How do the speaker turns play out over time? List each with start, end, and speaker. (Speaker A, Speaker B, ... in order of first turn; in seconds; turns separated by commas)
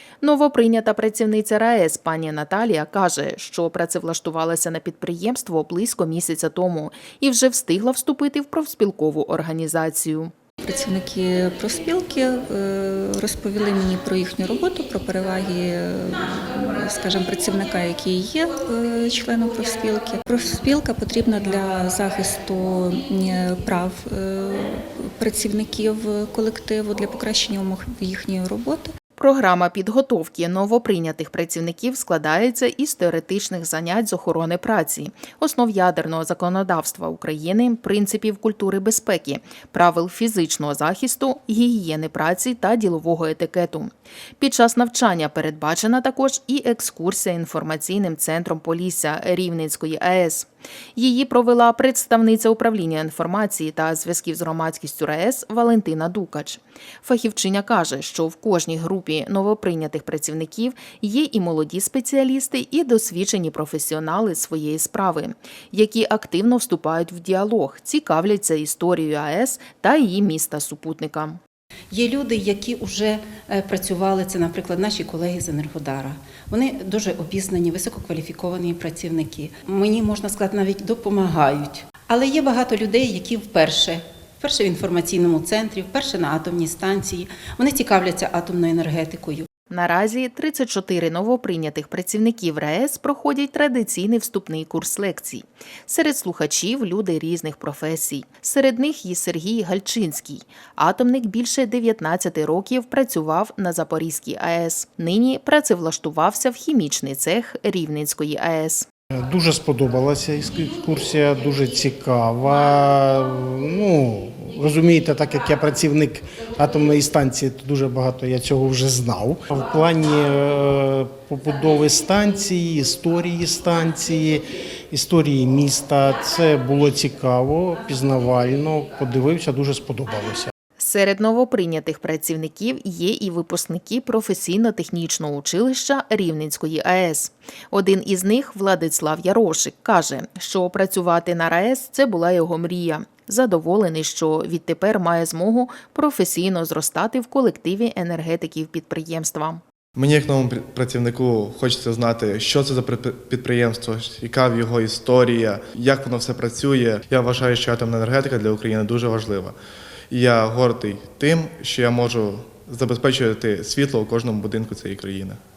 Speaker A: 0.2-10.3, Speaker B: 10.6-28.9, Speaker A: 29.2-71.4, Speaker C: 71.9-89.5, Speaker A: 89.7-108.8, Speaker D: 109.2-130.5, Speaker A: 130.8-149.6, Speaker E: 149.9-159.6, Speaker E: 160.1-165.4